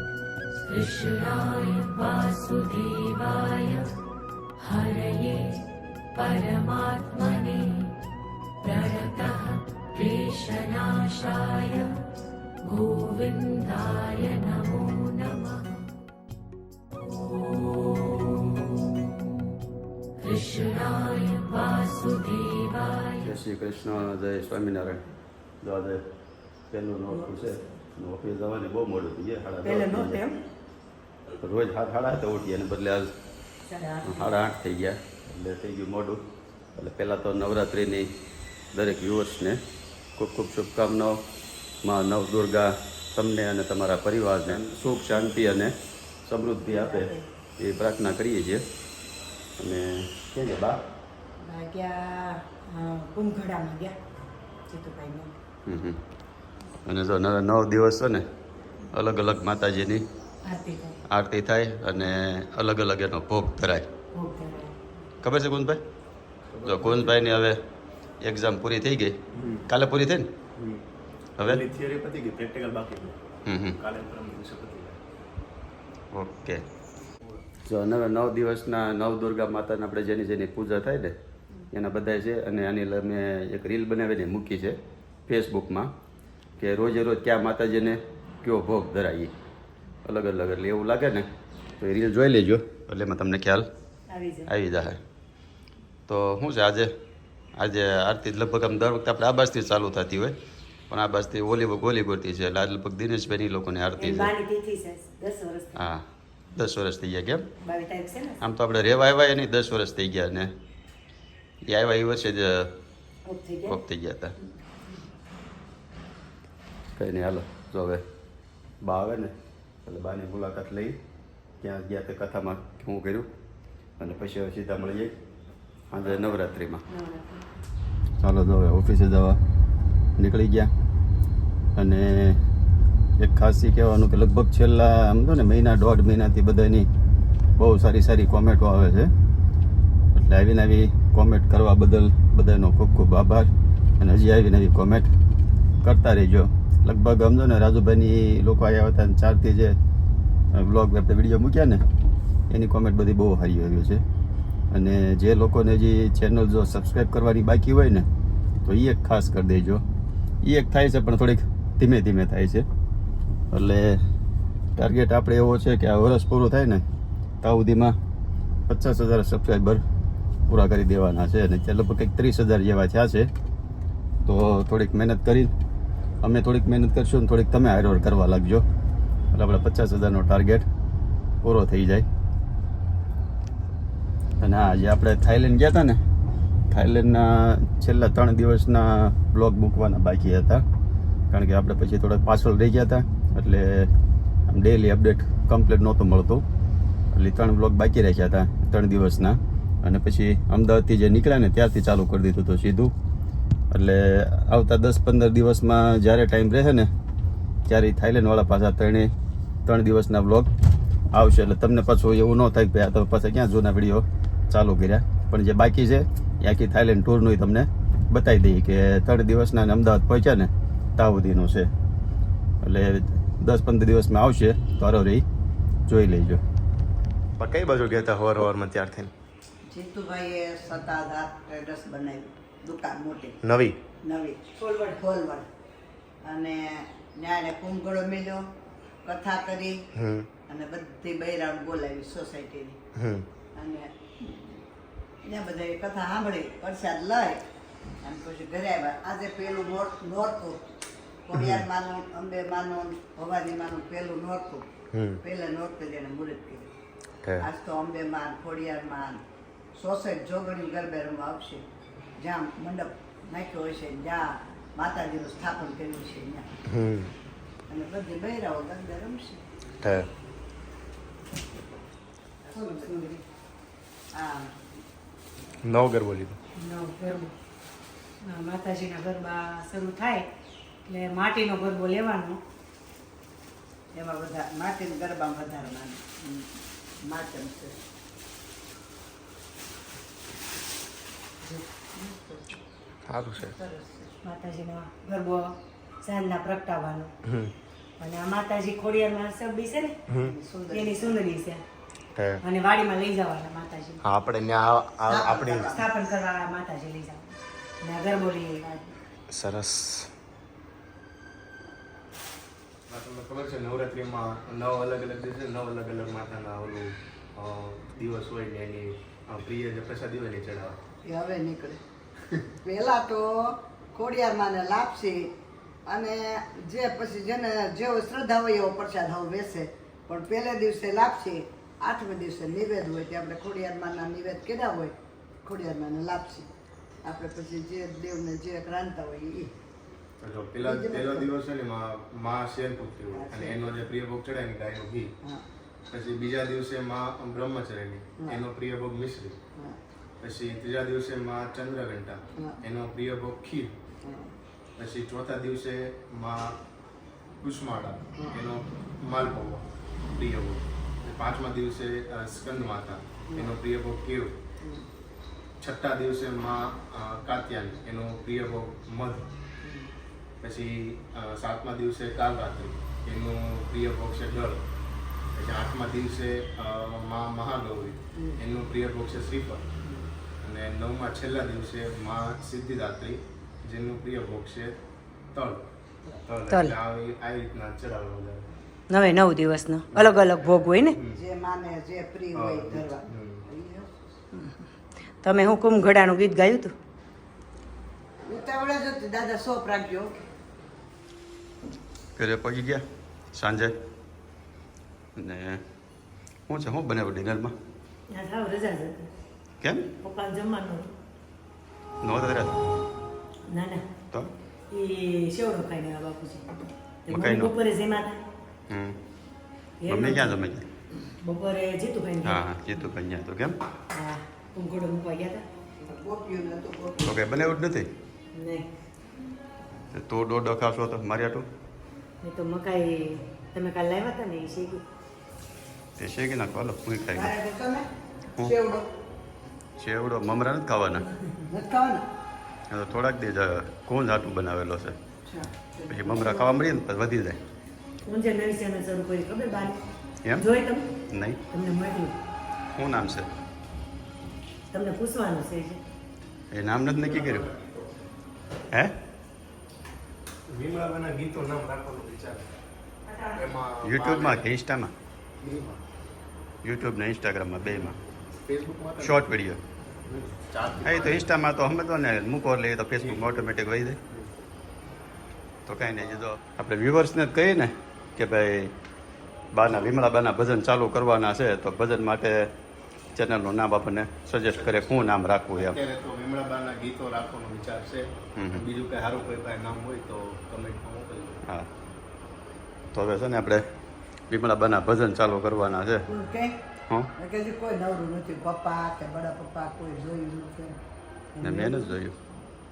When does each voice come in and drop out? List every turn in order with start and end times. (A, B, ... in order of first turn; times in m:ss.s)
0:00.6-0:03.9 A
0:04.6-0:05.6 A
0:06.1-0:07.9 A
0:08.6-0:11.9 A
0:12.6-0:15.6 A
0:17.1-0:19.1 A
0:20.2-0:23.3 A
0:23.2-0:25.0 B
0:25.6-0:26.0 B
0:26.7-0:30.2 B
0:29.6-0:30.4 C
0:31.4-0:33.1 B
0:33.7-0:34.4 C
0:34.0-0:36.2 B
0:36.7-0:38.1 B
0:38.7-0:39.6 B
0:40.2-0:41.2 B
0:41.8-0:45.7 B
0:46.2-0:48.6 B
0:46.7-0:47.3 C
0:49.6-0:50.8 B
0:51.4-0:54.0 C
0:54.7-0:55.4 C
0:55.6-0:56.0 B
0:56.8-0:58.2 B
0:58.9-1:00.0 B
1:00.4-1:01.0 C
1:01.1-1:03.9 B
1:04.1-1:04.8 C
1:05.2-1:05.8 B
1:06.6-1:06.9 D
1:06.6-1:07.6 B
1:08.2-1:09.2 B
1:09.7-1:10.3 B
1:11.4-1:11.6 B
1:11.6-1:13.1 D
1:13.4-1:13.8 B
1:13.8-1:15.0 D
1:16.1-1:16.6 B
1:17.6-1:21.1 B
1:21.7-1:25.9 B
1:26.6-1:29.3 B
1:30.0-1:31.3 B
1:31.8-1:33.7 B
1:34.1-1:34.5 C
1:34.5-1:35.0 B
1:36.1-1:36.9 B
1:37.6-1:40.4 B
1:40.9-1:44.3 B
1:44.0-1:45.8 C
1:45.8-1:46.0 B
1:46.6-1:47.4 B
1:47.6-1:48.4 C
1:48.4-1:50.5 B
1:51.7-1:52.7 B
1:53.2-1:53.8 C
1:53.7-1:54.3 B
1:56.9-1:58.0 B
1:58.8-1:59.3 B
1:59.8-2:01.0 B
2:01.6-2:03.3 B
2:04.0-2:05.1 B
2:05.9-2:06.8 B
2:06.9-2:07.5 C
2:08.2-2:09.4 B
2:10.2-2:10.7 B
2:11.8-2:12.4 B
2:13.2-2:16.9 B
2:17.6-2:19.1 B
2:20.1-2:25.1 B
2:25.8-2:29.8 B
2:30.5-2:31.8 B
2:32.5-2:34.0 B
2:34.7-2:38.1 B
2:38.6-2:39.8 B
2:40.4-2:42.6 B
2:43.5-2:44.0 B
2:44.8-2:46.8 B
2:47.4-2:47.9 B
2:48.7-2:49.8 B
2:50.5-2:53.3 B
2:54.2-2:55.5 B
2:56.2-2:58.6 B
2:59.3-3:00.6 B
3:01.4-3:02.0 B
3:04.4-3:06.0 B
3:06.7-3:10.6 B
3:11.3-3:13.9 B
3:14.5-3:16.4 B
3:17.1-3:22.9 B
3:23.7-3:26.9 B
3:27.7-3:29.1 B
3:29.6-3:30.5 B
3:31.1-3:41.7 B
3:42.6-3:45.2 B
3:45.9-3:46.4 B
3:49.7-3:53.4 E
3:54.0-3:55.5 E
3:54.6-3:55.0 C
3:56.2-3:58.4 E
3:59.0-3:59.8 E
4:00.5-4:02.8 E
4:03.5-4:04.4 E
4:05.2-4:07.4 E
4:08.0-4:10.6 E
4:11.3-4:14.7 E
4:11.4-4:11.6 B
4:14.9-4:15.2 B
4:15.2-4:16.7 E
4:17.4-4:19.2 E
4:19.7-4:21.6 E
4:22.2-4:26.5 E
4:27.7-4:29.4 E
4:32.4-4:32.9 E
4:32.5-4:33.2 C
4:34.1-4:34.6 E
4:35.8-4:36.3 D
4:36.6-4:37.3 C
4:38.2-4:40.3 C
4:40.8-4:42.4 C
4:43.9-4:47.8 E
4:51.9-4:52.6 E
4:53.3-4:54.1 E
4:54.2-4:57.1 C
4:58.0-5:00.0 C
5:00.2-5:01.2 E
5:00.7-5:01.6 C
5:02.1-5:02.4 B
5:02.4-5:04.0 C
5:04.0-5:05.7 D
5:05.1-5:05.8 E
5:05.7-5:08.9 C
5:12.9-5:20.8 D
5:21.0-5:21.8 E
5:22.6-5:25.3 E
5:25.8-5:36.5 E
5:37.0-5:39.5 E
5:40.2-5:45.1 D
5:40.6-5:41.3 E
5:43.1-5:43.6 E
5:45.9-5:49.4 D
5:50.2-5:53.7 D
5:54.0-5:54.3 E
5:54.8-5:56.5 D
5:57.4-6:04.3 D
6:05.6-6:09.3 D
6:09.6-6:09.9 E
6:10.4-6:14.6 D
6:15.3-6:19.6 D
6:20.4-6:24.8 D
6:25.3-6:25.6 D
6:26.2-6:28.5 D
6:26.5-6:26.8 C
6:28.9-6:31.0 C
6:29.9-6:30.2 D
6:31.1-6:34.0 E
6:32.3-6:33.4 D
6:34.3-6:34.6 C
6:35.2-6:36.7 C
6:38.2-6:40.1 E
6:42.2-6:42.8 B
6:43.3-6:43.7 B
6:45.2-6:45.6 B
6:46.5-6:47.5 B
6:48.1-6:49.1 C
6:49.6-6:49.8 B
6:50.0-6:50.9 C
6:52.0-6:52.6 B
6:53.5-6:53.8 C
6:54.7-6:56.5 C
6:57.0-6:58.2 C
6:57.1-6:57.5 B
6:58.7-6:59.0 B
6:59.8-7:00.4 C
6:59.9-7:00.7 B
7:01.2-7:02.4 C
7:02.2-7:03.6 B
7:03.9-7:05.4 C
7:05.8-7:07.1 E
7:07.0-7:07.9 B
7:08.3-7:08.7 C
7:09.9-7:11.4 B
7:12.2-7:14.8 C
7:16.0-7:17.3 B
7:17.1-7:17.9 E
7:18.4-7:18.9 E
7:19.8-7:21.1 B
7:21.5-7:22.0 E
7:22.7-7:25.0 B
7:25.2-7:26.5 E
7:25.9-7:27.4 B
7:28.0-7:29.8 C
7:30.4-7:30.9 C
7:31.1-7:31.4 B
7:31.5-7:32.2 C
7:32.7-7:33.3 B
7:34.7-7:35.8 C
7:36.5-7:37.5 B
7:37.0-7:37.7 D
7:40.5-7:42.5 D
7:43.3-7:44.4 D
7:43.8-7:44.9 B
7:45.4-7:45.8 D
7:46.6-7:48.0 B
7:48.4-7:49.2 D
7:49.0-7:49.6 B
7:50.1-7:51.3 D
7:50.8-7:54.0 B
7:55.6-7:58.7 B
7:59.5-8:02.5 B
8:03.1-8:05.8 B
8:04.6-8:11.4 D
8:08.4-8:08.6 B
8:12.9-8:13.6 B
8:14.3-8:16.0 B
8:16.1-8:16.6 E
8:17.2-8:20.8 E
8:21.4-8:21.9 E
8:21.4-8:22.2 B